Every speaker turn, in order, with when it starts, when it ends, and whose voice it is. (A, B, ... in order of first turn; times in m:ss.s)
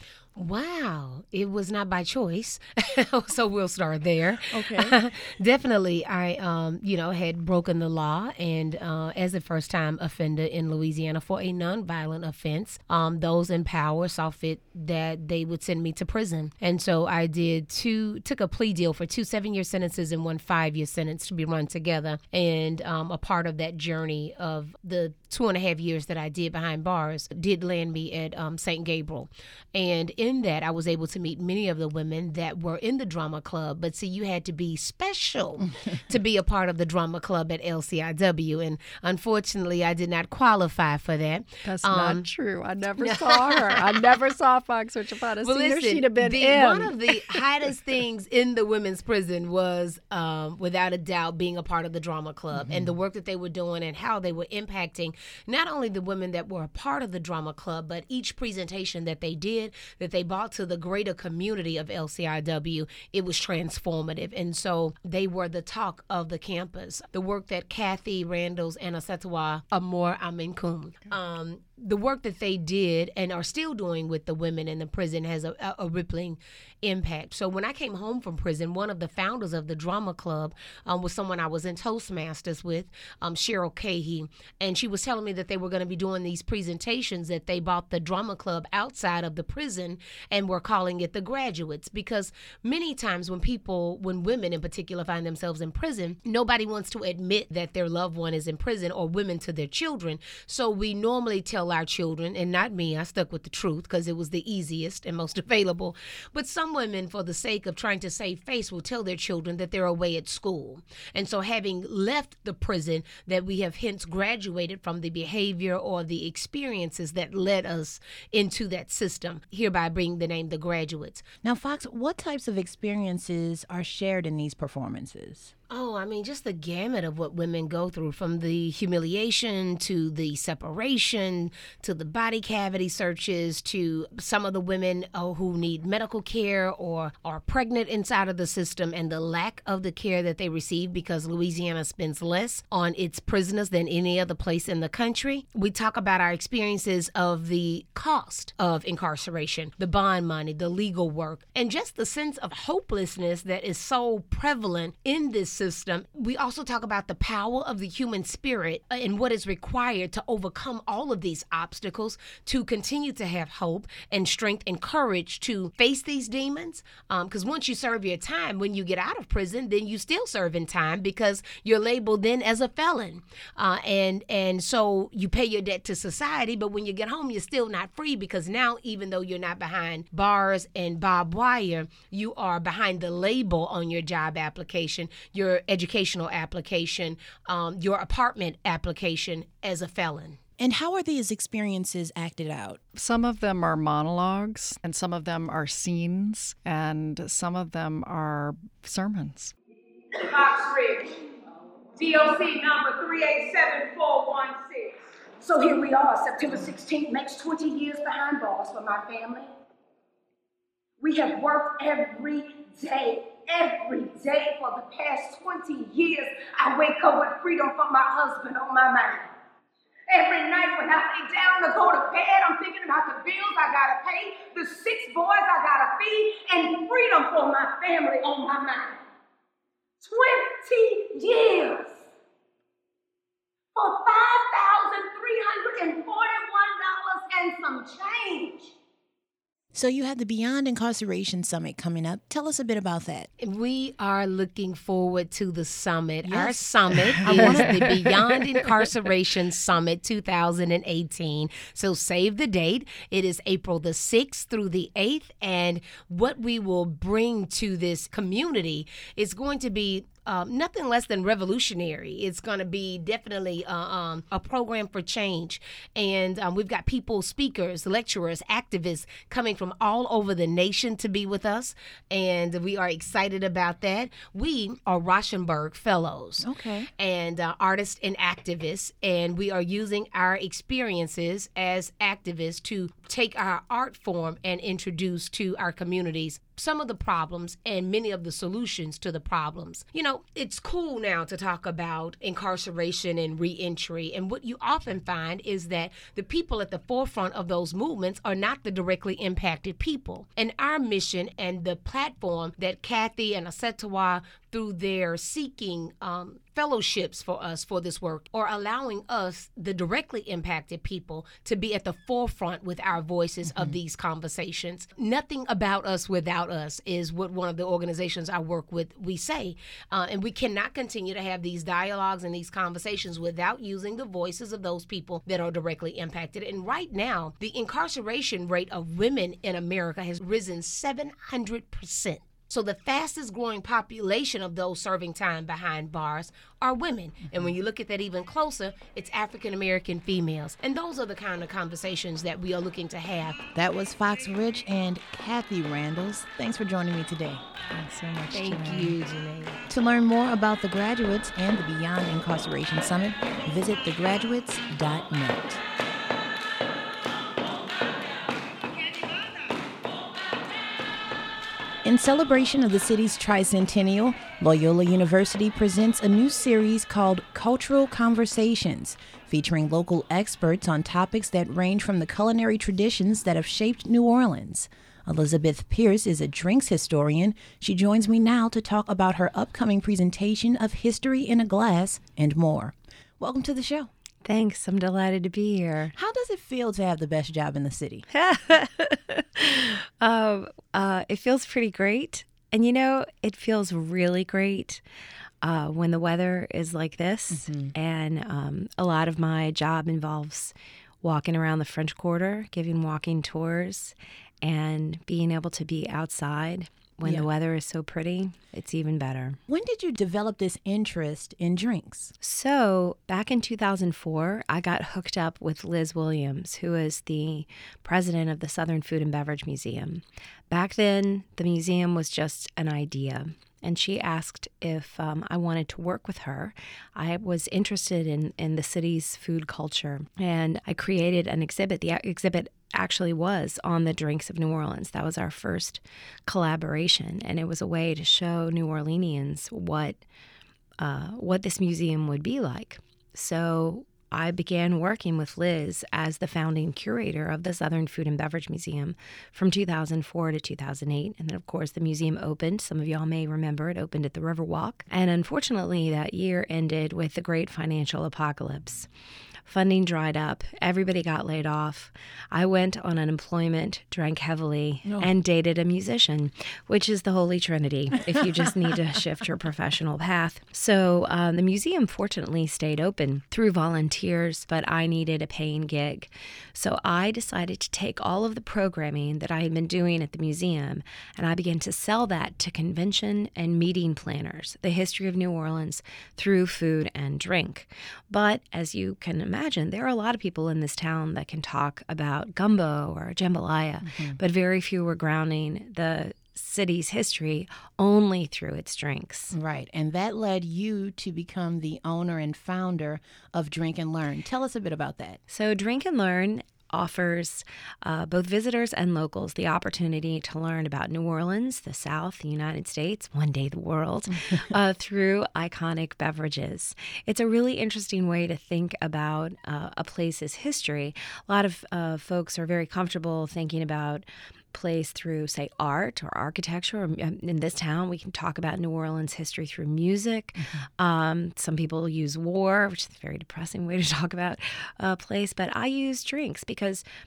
0:00.4-0:42.3 A
0:04.5-0:05.0 B
0:41.6-0:47.4 C
0:43.0-0:44.1 A
0:45.4-2:01.2 A
0:52.5-0:53.0 B
2:01.4-2:05.5 B
2:05.7-3:10.4 A
3:10.6-3:12.8 B
3:13.0-3:19.5 C
3:20.2-3:21.2 D
3:22.0-3:29.5 D
3:31.0-3:39.3 D
3:40.1-3:49.0 D
3:50.0-3:52.0 D
3:53.8-3:58.7 D
3:59.7-4:03.3 B
4:03.4-5:43.4 A
4:06.3-4:08.1 B
4:07.4-4:07.8 C
4:36.4-4:36.9 B
5:13.4-5:13.8 B
5:43.6-5:47.5 B
5:47.7-5:49.1 C
5:48.3-5:49.5 A
5:49.7-5:55.6 B
6:01.8-6:23.9 B
6:24.2-6:25.9 E
6:26.0-6:28.0 B
6:28.1-6:34.8 E
6:35.4-6:49.4 E
6:37.3-6:37.7 B
6:47.0-6:47.3 B
6:49.5-6:52.1 B
6:52.2-7:20.0 E
7:20.8-7:38.9 E
7:39.5-8:19.4 E
8:13.8-8:14.2 B
8:19.3-8:25.2 B
8:25.3-8:56.8 E
8:50.4-8:50.7 B